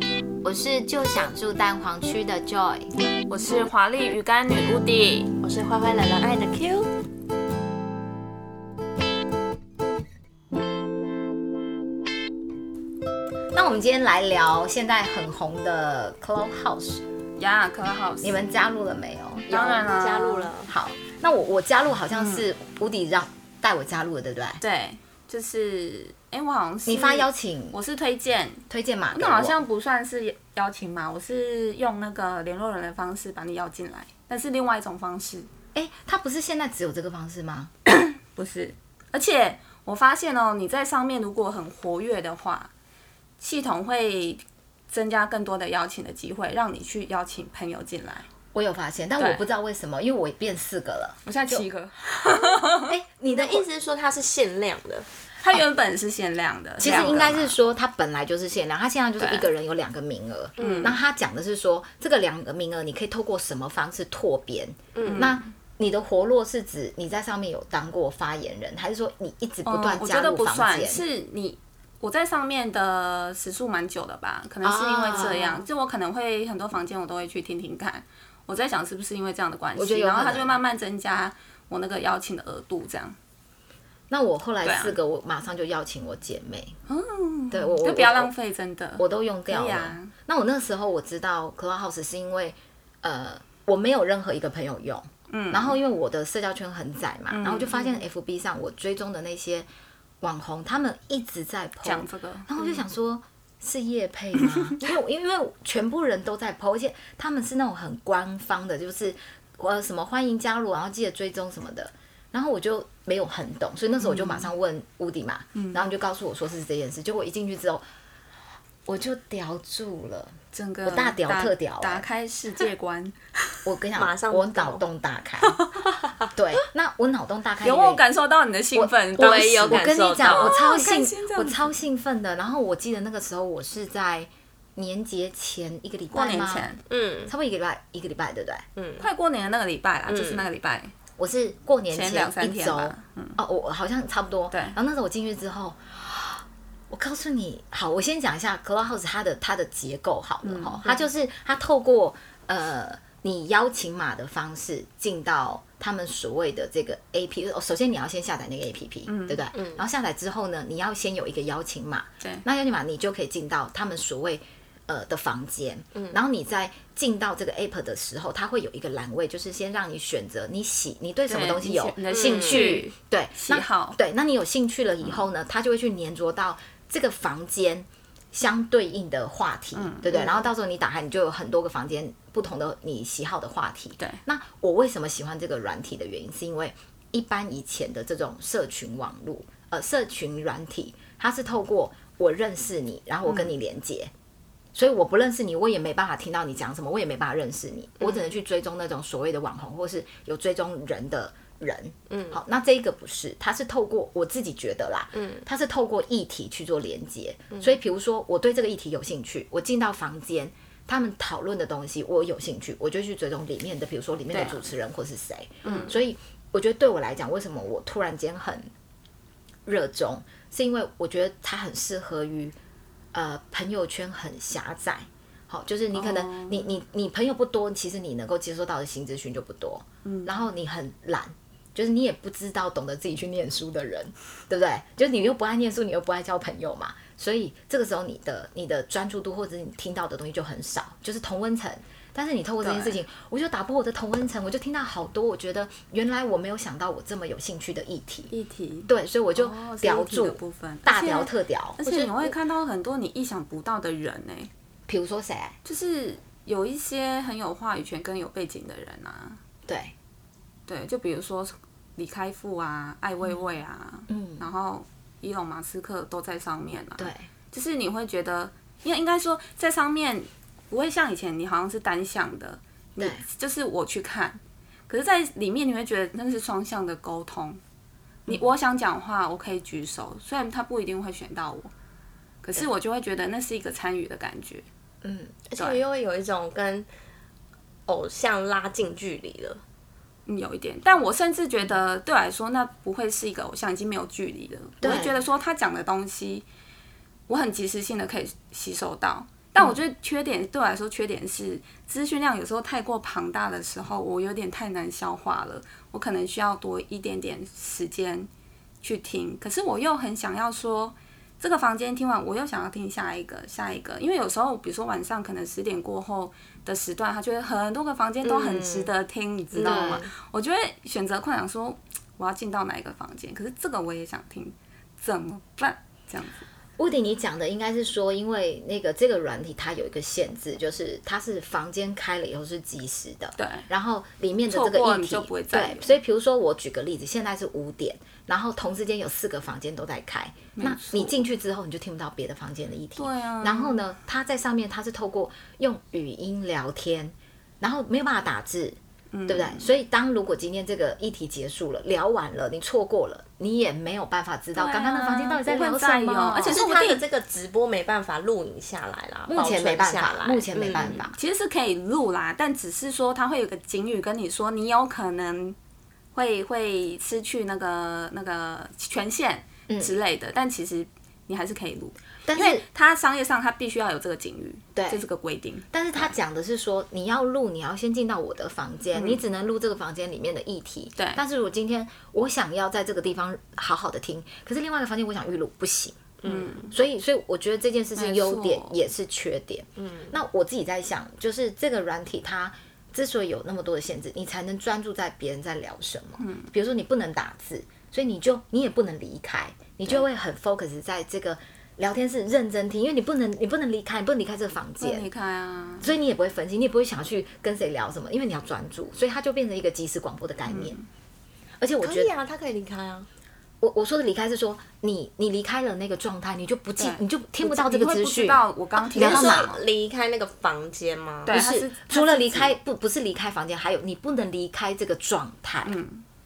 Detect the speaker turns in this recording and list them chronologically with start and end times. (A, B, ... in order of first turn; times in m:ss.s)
0:00.4-0:02.9 A
0:03.3-0:05.4 B
0:05.4-0:06.9 C
0:13.5-0:17.0 A
0:17.4-0:18.4 B
0:18.2-0:19.9 A
0:19.5-0:20.5 B
0:19.9-0:20.7 C
0:20.6-0:24.6 A
0:22.1-0:22.4 B
0:24.6-0:35.5 B
0:26.8-0:27.8 A
0:28.7-0:29.6 A
0:35.7-0:37.7 A
0:37.8-0:42.7 B
0:43.4-0:48.3 B
0:48.5-0:51.6 A
0:51.2-0:52.9 B
0:52.5-0:53.6 A
0:53.3-0:55.1 C
0:55.4-0:57.5 B
0:56.8-1:11.0 A
0:59.2-0:59.4 B
1:00.6-1:01.0 C
1:00.6-1:01.0 B
1:04.9-1:05.3 C
1:05.0-1:05.4 B
1:09.6-1:23.2 B
1:14.6-1:15.6 A
1:19.8-1:20.6 A
1:24.1-1:26.7 A
1:24.6-1:25.0 B
1:26.9-1:30.1 B
1:27.5-1:28.3 A
1:29.0-1:39.7 A
1:35.3-1:35.8 B
1:37.3-1:38.0 B
1:40.2-1:57.8 A
1:41.8-1:42.8 B
1:44.4-1:44.7 B
1:54.0-1:54.5 B
1:55.5-1:55.9 B
1:58.8-2:02.0 A
2:00.5-2:03.6 B
2:03.6-2:05.6 A
2:04.0-2:04.8 C
2:05.4-2:05.7 B
2:06.3-2:08.0 A
2:07.6-2:11.7 B
2:08.7-2:16.7 A
2:09.2-2:10.6 C
2:16.1-2:16.8 B
2:16.9-2:17.3 C
2:17.3-2:18.6 A
2:18.8-2:19.0 C
2:19.0-2:20.9 B
2:20.1-2:20.4 C
2:21.2-3:14.1 A
2:21.9-2:23.4 B
2:24.5-2:24.8 B
2:30.4-2:31.0 B
2:39.1-2:39.4 B
2:39.5-2:39.8 C
2:51.3-2:54.0 B
2:52.1-2:52.8 C
2:59.7-3:00.1 B
3:00.1-3:00.4 C
3:14.7-3:38.7 A
3:22.1-3:22.4 C
3:25.1-3:25.4 C
3:34.3-3:34.6 B
3:35.6-3:35.9 B
3:35.6-3:35.9 C
3:39.6-3:42.5 A
3:43.1-4:08.3 A
3:45.9-3:46.7 B
3:50.0-3:50.5 B
4:02.6-4:03.0 B
4:08.3-4:14.5 B
4:08.9-4:12.1 A
4:14.9-4:15.6 A
4:15.6-4:19.4 B
4:19.7-4:19.9 A
4:20.7-4:37.6 B
4:24.1-4:24.4 A
4:27.0-4:27.2 A
4:33.0-4:33.2 A
4:38.2-4:41.7 B
4:42.4-4:44.6 B
4:45.0-4:45.3 A
4:45.5-4:46.9 C
4:47.9-4:49.6 C
4:50.2-4:56.4 B
4:54.8-4:55.1 A
4:57.3-5:08.3 B
5:08.8-5:26.4 B
5:18.2-5:18.9 C
5:19.5-5:20.1 C
5:19.6-5:20.0 A
5:26.8-5:57.0 A
5:33.4-5:33.7 B
5:34.5-5:35.9 B
5:40.6-5:41.2 B
5:43.0-5:43.8 B
5:49.1-5:49.7 B
5:54.5-5:56.7 B
5:56.4-6:01.0 C
5:59.3-6:01.1 A
6:00.7-6:05.6 B
6:06.1-6:16.0 B
6:12.3-6:12.6 A
6:14.7-6:15.0 A
6:15.7-6:26.1 A
6:18.9-6:19.2 B
6:26.2-6:26.7 C
6:26.2-6:26.7 B
6:26.7-6:45.1 A
6:28.0-6:28.7 B
6:29.8-6:30.1 C
6:36.2-6:36.5 B
6:44.8-6:45.9 B
6:45.8-6:50.8 A
6:50.5-6:50.8 B
6:51.6-6:52.1 A
6:51.8-6:53.1 C
6:53.6-6:58.4 A
6:56.8-6:59.6 B
6:58.8-7:01.3 C
6:58.9-6:59.5 A
7:01.2-7:02.6 B
7:01.3-7:05.8 A
7:05.6-7:06.0 B